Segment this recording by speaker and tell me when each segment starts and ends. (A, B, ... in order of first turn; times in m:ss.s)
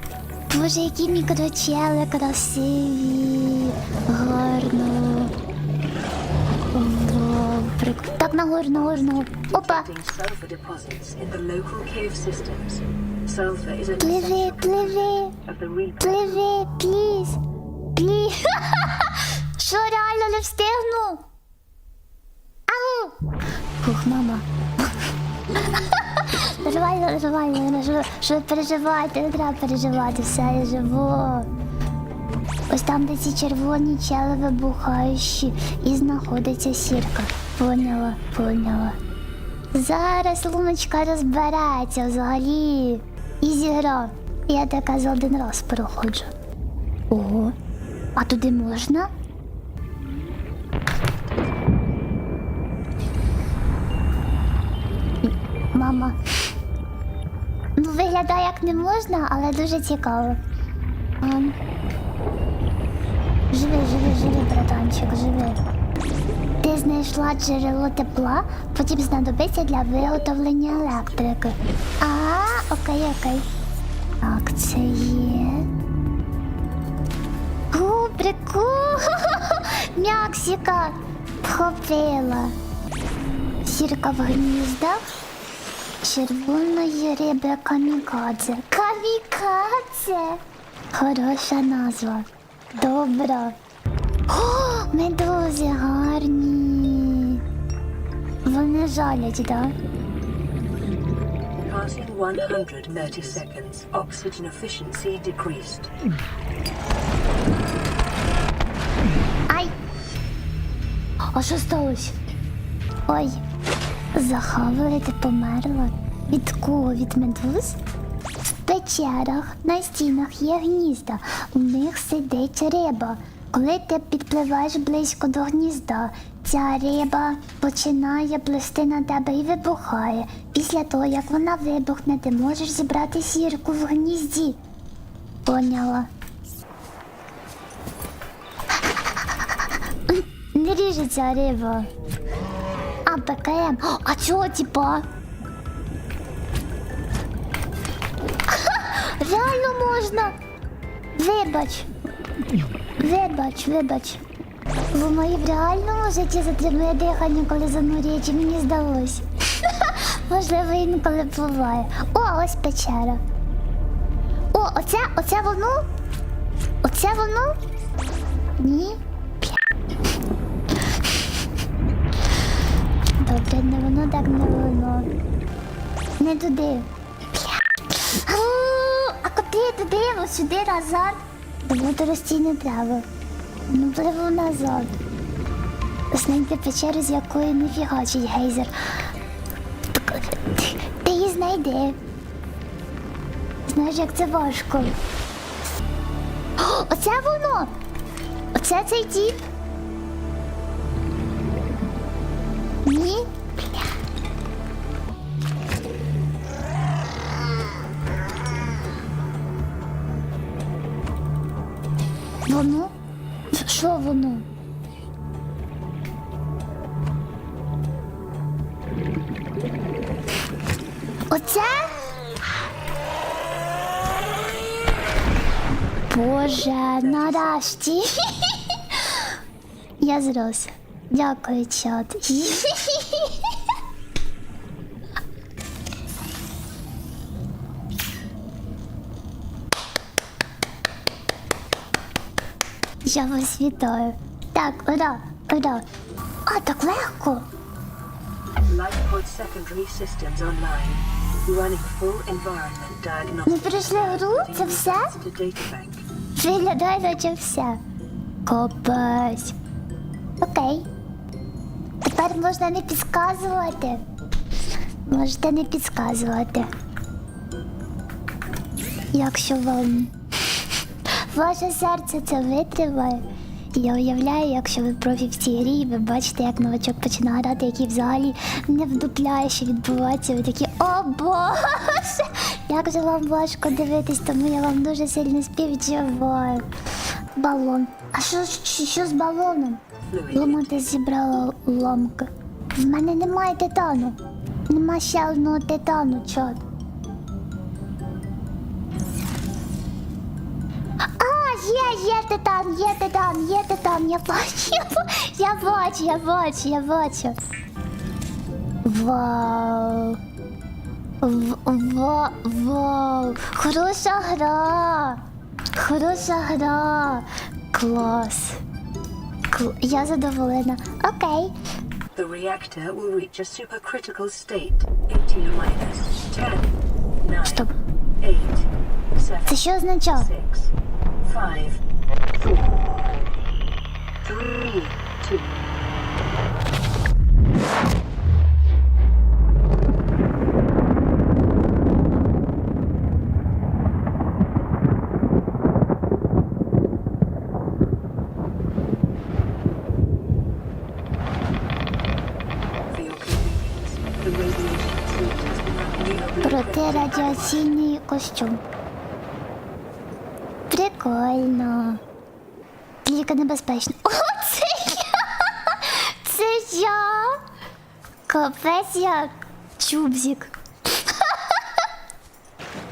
0:00.5-0:05.3 A
0:06.7-0:09.9 A
0:08.7-0:16.4 B
0:14.0-0:15.3 A
0:16.0-0:17.4 A
0:18.0-0:21.2 A
0:22.7-0:23.2 A
0:23.8-0:24.9 A
0:25.6-0:31.5 A
0:32.7-0:39.0 A
0:39.7-0:46.3 A
0:47.1-0:47.5 A
0:48.2-0:49.1 A
0:55.2-0:56.2 A
0:57.8-1:00.4 A
1:01.2-1:01.6 A
1:03.5-1:05.6 A
1:06.6-1:13.4 A
1:14.2-1:15.7 A
1:17.7-1:22.6 A
1:23.6-1:25.0 A
1:26.0-1:30.4 A
1:30.9-1:33.6 A
1:34.3-1:37.4 A
1:38.4-1:39.7 A
1:41.6-1:45.9 B
1:51.3-1:52.1 A
1:53.1-1:53.4 A
1:54.1-1:57.8 A
1:58.6-2:14.6 A
2:15.4-2:16.1 A
2:20.1-2:21.9 A
2:23.0-2:25.0 A
2:28.5-2:30.4 A
2:31.2-2:31.9 A
2:33.0-2:34.2 A
2:34.9-2:43.2 A
2:44.5-2:45.8 A
2:46.8-2:47.6 A
2:48.6-2:49.6 A
2:53.2-2:55.1 A
2:56.2-3:03.0 A
3:03.7-3:05.0 A
3:06.1-3:09.0 A
3:09.9-3:12.0 A
3:13.7-3:14.9 A
3:16.6-3:17.7 A
3:18.5-3:19.4 A
3:22.8-3:23.3 A
3:32.4-3:32.9 A
3:33.5-3:34.4 A
3:41.3-3:42.0 A
3:46.1-3:49.4 A
3:47.0-3:47.7 B
3:50.0-3:53.6 A
4:03.0-4:05.8 A
4:06.5-4:07.5 A
4:08.7-4:16.0 B
4:13.4-4:15.1 A
4:16.4-4:17.8 A
4:18.4-4:19.5 A
4:20.4-4:20.9 A
4:22.0-4:24.0 A
4:25.0-4:26.7 A
4:29.1-4:30.1 A
4:31.1-4:46.6 A
4:47.4-4:56.6 A
4:50.1-4:50.9 B
5:01.2-5:07.3 A
5:08.8-5:10.2 A
5:11.2-5:15.2 A
5:15.7-5:18.6 A
5:19.5-5:21.5 A
5:22.1-5:27.7 B
5:27.4-5:27.7 A
5:28.2-5:31.8 B
5:29.5-5:30.3 A
5:32.4-5:33.3 B
5:34.2-5:35.6 B
5:52.9-5:57.7 B
5:56.4-5:58.6 A
6:00.7-6:02.0 A
6:03.0-6:07.4 A
6:08.3-6:11.8 A